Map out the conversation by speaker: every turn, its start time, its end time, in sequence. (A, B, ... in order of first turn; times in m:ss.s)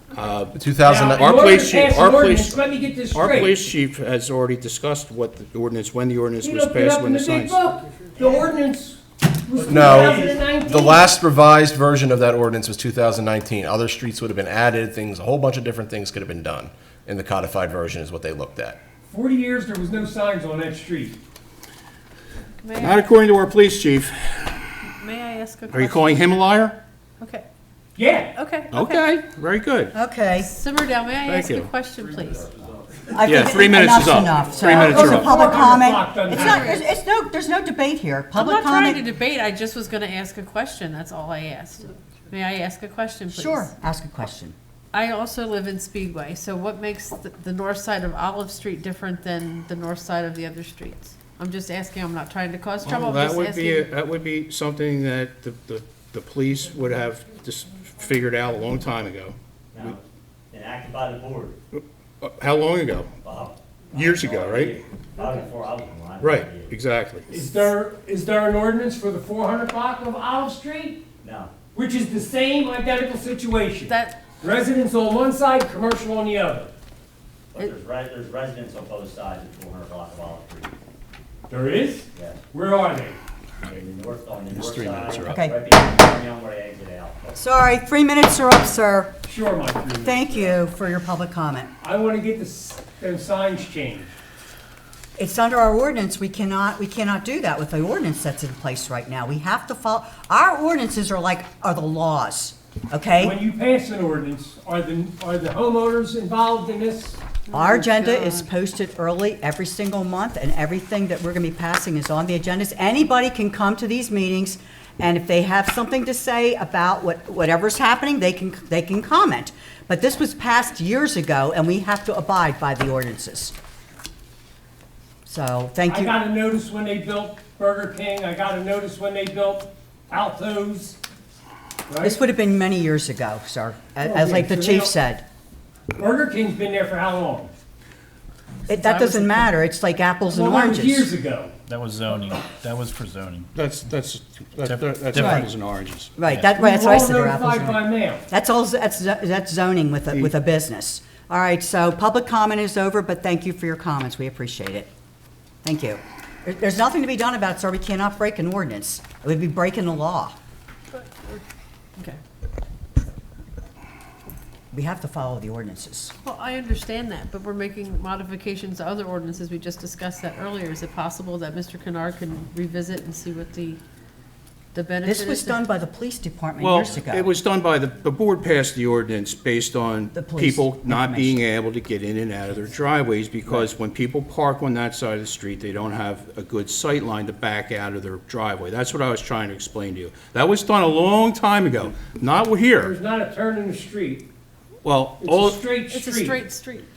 0:00.1-0:00.6 A
0:00.5-0:01.4 B
0:00.8-0:03.5 C
0:01.2-0:07.6 A
0:06.4-0:11.1 C
0:09.6-0:18.8 B
0:19.1-0:21.2 C
0:22.6-0:23.1 D
0:22.8-0:24.7 A
0:25.0-0:26.3 D
0:25.7-0:26.8 A
0:27.2-0:27.4 D
0:28.0-0:28.3 C
0:28.3-0:29.1 D
0:28.7-0:29.9 A
0:29.9-0:30.5 E
0:30.4-0:32.5 D
0:31.2-0:31.7 A
0:32.2-0:33.1 F
0:33.1-0:39.0 E
0:33.2-0:35.4 A
0:34.6-0:35.1 D
0:34.6-0:36.6 C
0:36.3-0:36.8 D
0:38.4-0:43.7 D
0:43.3-0:44.6 E
0:44.9-0:53.9 D
0:52.8-1:00.0 A
0:59.7-1:01.6 F
1:01.7-1:03.1 A
1:03.2-1:06.7 F
1:03.9-1:04.8 A
1:06.2-1:07.6 A
1:07.3-1:11.1 C
1:11.2-1:11.6 F
1:11.6-1:16.7 C
1:13.9-1:14.2 D
1:17.5-1:20.7 F
1:21.5-1:23.2 C
1:22.1-1:22.5 F
1:23.6-1:27.4 F
1:24.5-1:25.4 A
1:25.3-1:25.6 E
1:27.3-1:29.2 E
1:29.2-1:30.6 C
1:30.0-1:31.7 E
1:31.8-1:34.2 C
1:35.2-1:43.4 E
1:43.2-1:47.2 C
1:47.5-1:48.5 D
1:47.5-2:03.6 E
2:05.2-2:06.2 E
2:05.9-2:11.0 C
2:11.9-2:12.2 C
2:12.0-2:15.2 E
2:14.0-2:14.9 C
2:16.0-2:17.5 C
2:18.7-2:19.5 D
2:18.7-2:21.1 E
2:20.3-2:21.5 C
2:21.6-2:23.5 G
2:23.6-2:26.4 A
2:24.6-2:25.5 G
2:25.2-2:25.5 E
2:26.2-2:34.9 E
2:26.5-2:28.2 C
2:35.6-2:40.4 E
2:41.0-2:41.4 D
2:44.7-2:46.1 E
2:46.2-2:53.8 D
2:54.7-2:55.6 D
2:55.0-2:57.3 E
2:56.6-3:12.9 A
3:00.1-3:01.4 E
3:12.8-3:14.2 C
3:14.8-3:15.6 A
3:15.2-3:16.4 C
3:15.9-3:16.9 D